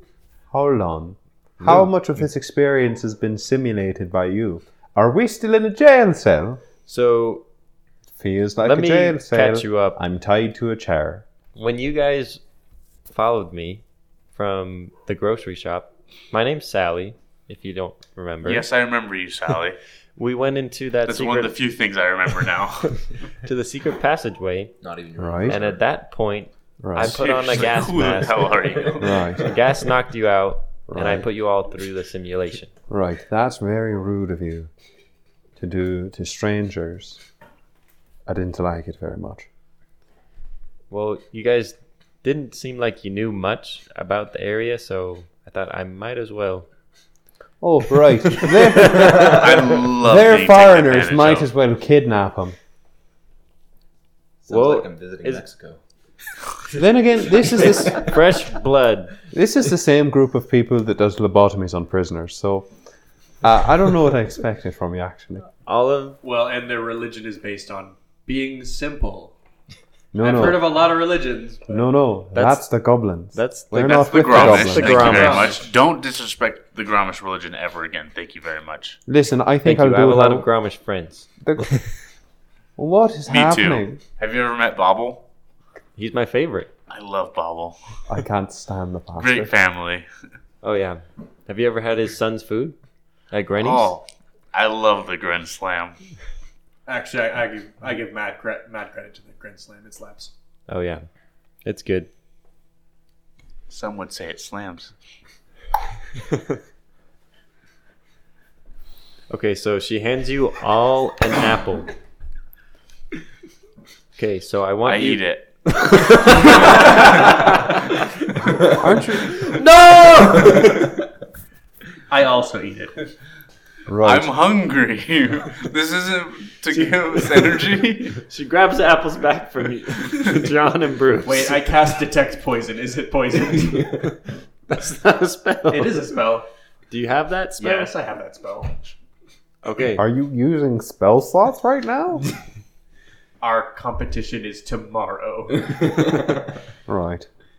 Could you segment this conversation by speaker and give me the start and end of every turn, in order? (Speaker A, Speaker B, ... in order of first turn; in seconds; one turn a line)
Speaker A: 0.5-6.6
Speaker B: 6.9-7.5
Speaker A: 8.2-11.3
Speaker B: 8.6-10.0
Speaker B: 11.6-12.4
Speaker B: 13.1-13.8
Speaker B: 14.3-18.7
Speaker C: 18.4-19.8
Speaker B: 20.2-21.6
Speaker C: 21.1-23.1
Speaker B: 23.4-24.8
Speaker D: 24.8-25.8
Speaker A: 25.2-25.6
Speaker B: 25.5-32.7
Speaker A: 26.8-27.2
Speaker C: 27.0-29.2
Speaker A: 29.0-29.5
Speaker A: 30.9-31.3
Speaker A: 32.9-34.7
Speaker A: 35.6-37.2
Speaker A: 38.3-39.5
Speaker B: 40.9-46.7
Speaker A: 47.6-52.6
Speaker B: 48.5-48.9
Speaker C: 49.0-51.5
Speaker D: 54.5-55.8
Speaker B: 54.5-55.5
Speaker A: 56.7-58.1
Speaker B: 57.6-59.1
Speaker A: 59.3-62.7
Speaker A: 63.4-65.5
Speaker B: 65.7-66.2
Speaker E: 66.2-69.3
Speaker A: 70.1-70.7
Speaker E: 70.2-71.8
Speaker A: 71.7-75.3
Speaker B: 72.3-72.6
Speaker B: 73.3-75.6
Speaker C: 74.0-79.0
Speaker E: 74.9-75.7
Speaker A: 79.1-80.5
Speaker B: 79.6-81.8
Speaker A: 81.4-81.8
Speaker A: 82.8-84.0
Speaker C: 83.3-85.2
Speaker B: 86.0-86.7
Speaker C: 86.9-87.8
Speaker A: 88.1-89.5
Speaker C: 89.2-90.1
Speaker B: 90.6-92.8
Speaker B: 93.3-93.9
Speaker C: 93.6-96.0
Speaker E: 96.9-100.3
Speaker B: 100.7-101.0
Speaker B: 101.7-102.1
Speaker C: 103.7-104.9
Speaker B: 109.3-111.9
Speaker B: 114.2-115.2
Speaker C: 114.8-115.5
Speaker B: 115.8-117.4
Speaker C: 116.8-117.4
Speaker A: 118.8-119.5
Speaker B: 119.6-120.7
Speaker E: 122.1-123.1
Speaker A: 123.9-124.3
Speaker C: 124.0-128.2
Speaker B: 128.2-131.6
Speaker E: 131.2-134.1
Speaker B: 134.7-136.1
Speaker E: 135.7-136.5
Speaker B: 136.9-137.9
Speaker E: 137.6-138.9
Speaker B: 139.6-140.1
Speaker A: 140.0-142.3
Speaker E: 143.4-145.9
Speaker A: 146.9-147.3